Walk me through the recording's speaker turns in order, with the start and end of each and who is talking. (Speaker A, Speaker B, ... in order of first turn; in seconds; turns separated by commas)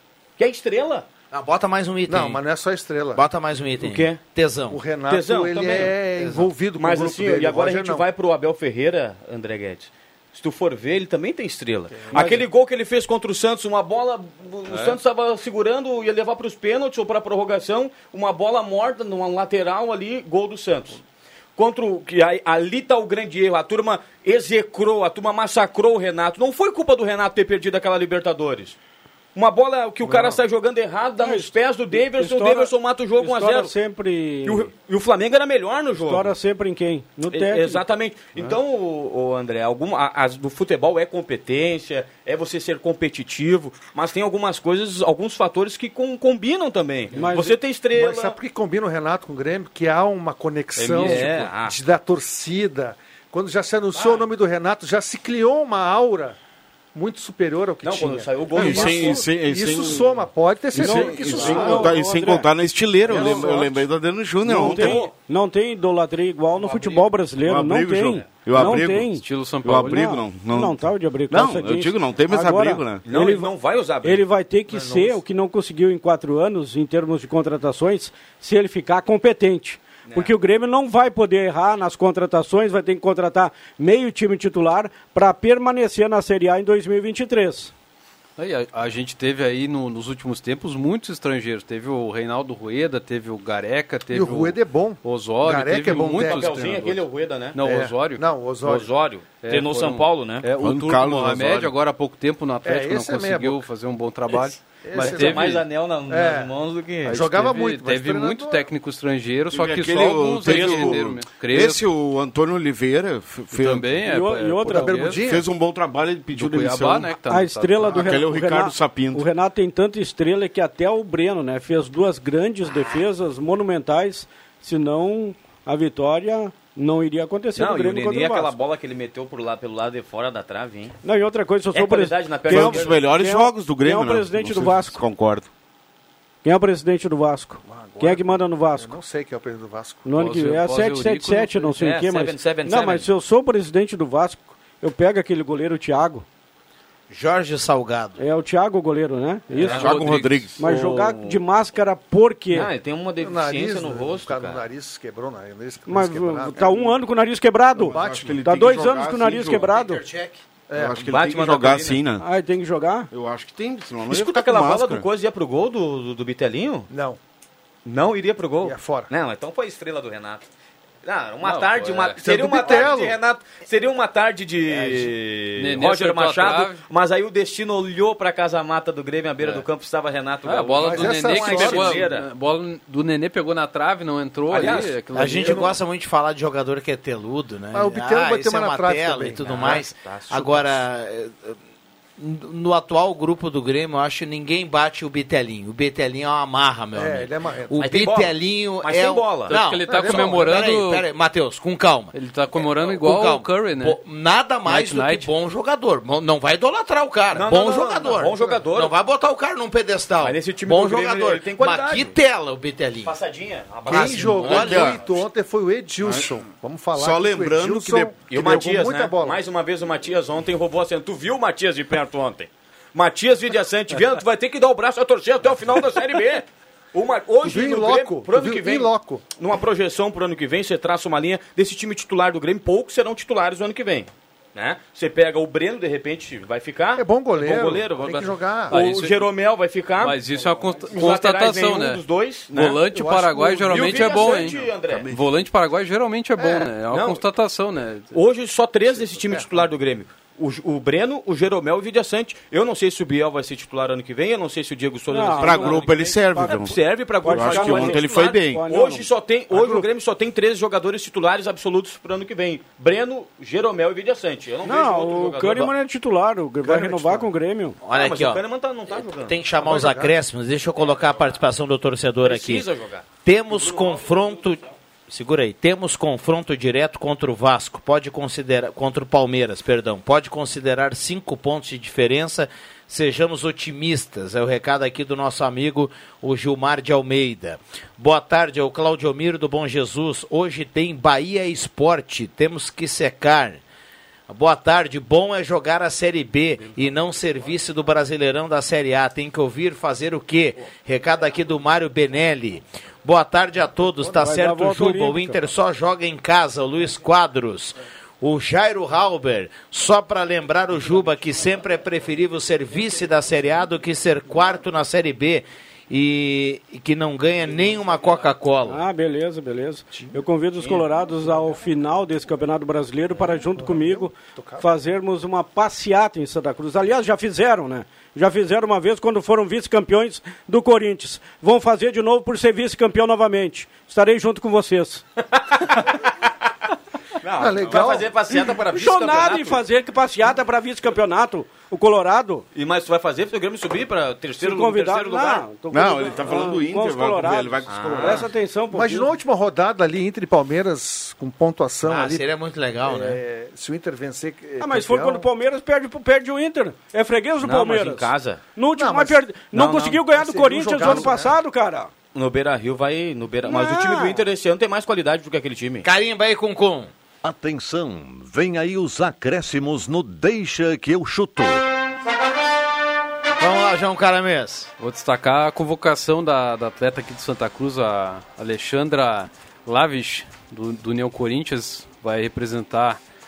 Speaker A: 0.4-1.1, Speaker B: 1.3-2.4, Speaker C: 2.1-3.2, Speaker B: 3.1-4.8, Speaker A: 3.8-4.2, Speaker C: 4.7-8.1, Speaker A: 5.1-6.0, Speaker B: 6.2-6.5, Speaker A: 6.8-21.0, Speaker C: 11.9-12.4, Speaker D: 12.1-12.4, Speaker E: 14.7-15.0, Speaker A: 21.6-28.8, Speaker A: 29.4-33.7, Speaker D: 30.1-30.4, Speaker D: 31.2-34.7, Speaker A: 34.5-36.3, Speaker D: 35.9-37.8, Speaker A: 37.3-48.4, Speaker D: 47.2-47.6, Speaker C: 47.9-56.4, Speaker A: 50.8-51.8, Speaker E: 50.8-51.5, Speaker A: 54.0-54.2, Speaker C: 57.0-61.9, Speaker A: 57.8-59.2, Speaker F: 58.5-65.1, Speaker D: 60.8-62.5, Speaker A: 63.1-63.5, Speaker C: 63.1-63.6, Speaker D: 64.5-73.5, Speaker A: 64.5-65.1, Speaker A: 66.5-67.1, Speaker F: 67.4-73.0, Speaker E: 69.2-70.0, Speaker A: 73.0-74.2, Speaker D: 74.0-87.7, Speaker C: 74.7-75.2, Speaker A: 80.0-80.3, Speaker E: 88.4-98.3, Speaker C: 94.1-96.5, Speaker A: 95.9-97.6, Speaker C: 97.6-98.9, Speaker A: 98.7-100.5, Speaker E: 99.4-105.6, Speaker F: 100.6-101.7, Speaker C: 102.6-103.7, Speaker C: 104.3-106.5, Speaker A: 104.9-107.4, Speaker C: 107.0-108.7, Speaker E: 107.1-111.8, Speaker F: 109.5-114.0, Speaker E: 113.5-115.2, Speaker D: 114.1-115.2, Speaker C: 114.7-115.5, Speaker F: 115.2-117.2, Speaker E: 116.3-118.2, Speaker D: 117.2-128.6, Speaker F: 117.9-119.3, Speaker A: 127.5-131.0, Speaker D: 131.0-135.0, Speaker A: 131.7-133.0, Speaker F: 132.5-135.5, Speaker D: 136.4-139.0, Speaker C: 137.7-140.1, Speaker D: 140.1-146.2, Speaker E: 140.2-141.8, Speaker A: 141.8-143.1, Speaker B: 147.1-148.2, Speaker D: 148.2-149.8, Speaker A: 149.5-151.4, Speaker E: 149.6-150.5, Speaker F: 149.7-150.6, Speaker D: 150.6-152.7, Speaker A: 152.5-154.7, Speaker C: 153.2-157.0, Speaker D: 155.9-160.0, Speaker F: 157.8-159.7, Speaker C: 157.8-158.4, Speaker B: 159.7-160.4, Speaker C: 160.7-161.0, Speaker F: 160.7-162.2, Speaker A: 161.0-162.0, Speaker D: 162.2-163.1, Speaker F: 163.1-165.1, Speaker A: 164.1-166.9, Speaker C: 166.9-167.2, Speaker A: 167.8-170.5, Speaker C: 168.6-169.1, Speaker A: 171.0-182.3, Speaker E: 171.4-172.8, Speaker C: 172.2-173.2, Speaker E: 175.6-176.8, Speaker E: 180.4-185.7, Speaker C: 180.8-182.1, Speaker A: 184.5-185.6, Speaker B: 185.1-191.6, Speaker C: 187.7-189.8, Speaker A: 189.4-190.8, Speaker B: 192.2-202.1, Speaker C: 196.9-197.8, Speaker A: 197.8-199.6, Speaker E: 199.5-201.1, Speaker C: 199.8-200.6, Speaker E: 202.1-204.0, Speaker A: 202.5-203.0, Speaker B: 203.0-213.2, Speaker E: 204.7-205.3, Speaker A: 207.3-208.9, Speaker A: 210.2-212.2, Speaker A: 213.0-215.2, Speaker B: 213.9-215.0, Speaker C: 213.9-219.4, Speaker F: 214.4-215.0, Speaker F: 216.0-216.4, Speaker F: 216.9-218.1, Speaker A: 218.3-240.2, Speaker C: 227.4-229.2, Speaker C: 237.0-238.8, Speaker E: 238.7-239.3, Speaker E: 240.0-248.2, Speaker A: 240.9-242.8, Speaker C: 242.8-244.7, Speaker A: 243.7-245.2, Speaker C: 246.4-246.7, Speaker A: 246.9-247.2, Speaker A: 248.1-265.7, Speaker C: 249.1-249.7, Speaker D: 255.1-259.8, Speaker F: 255.4-258.6, Speaker D: 264.6-267.8, Speaker C: 266.6-267.3, Speaker B: 267.8-268.4, Speaker A: 267.9-269.4, Speaker B: 269.3-272.7, Speaker C: 269.6-270.2, Speaker A: 272.2-273.1, Speaker B: 273.2-293.6, Speaker B: 294.3-318.8, Speaker D: 304.1-305.4, Speaker D: 318.7-335.0, Speaker C: 323.2-324.7, Speaker A: 335.3-336.0, Speaker A: 337.2-339.6, Speaker C: 337.4-338.5, Speaker D: 338.5-342.4, Speaker A: 342.5-345.5, Speaker D: 344.4-349.1, Speaker F: 345.7-348.3, Speaker A: 347.7-348.3, Speaker C: 348.7-352.2, Speaker B: 351.9-353.2, Speaker C: 352.9-355.3, Speaker D: 354.6-361.9, Speaker A: 357.4-358.4, Speaker C: 358.8-361.4, Speaker A: 360.8-361.1, Speaker A: 362.1-365.9, Speaker D: 363.4-364.2, Speaker B: 365.8-366.9, Speaker G: 367.2-371.6, Speaker B: 373.4-374.7, Speaker E: 374.8-383.0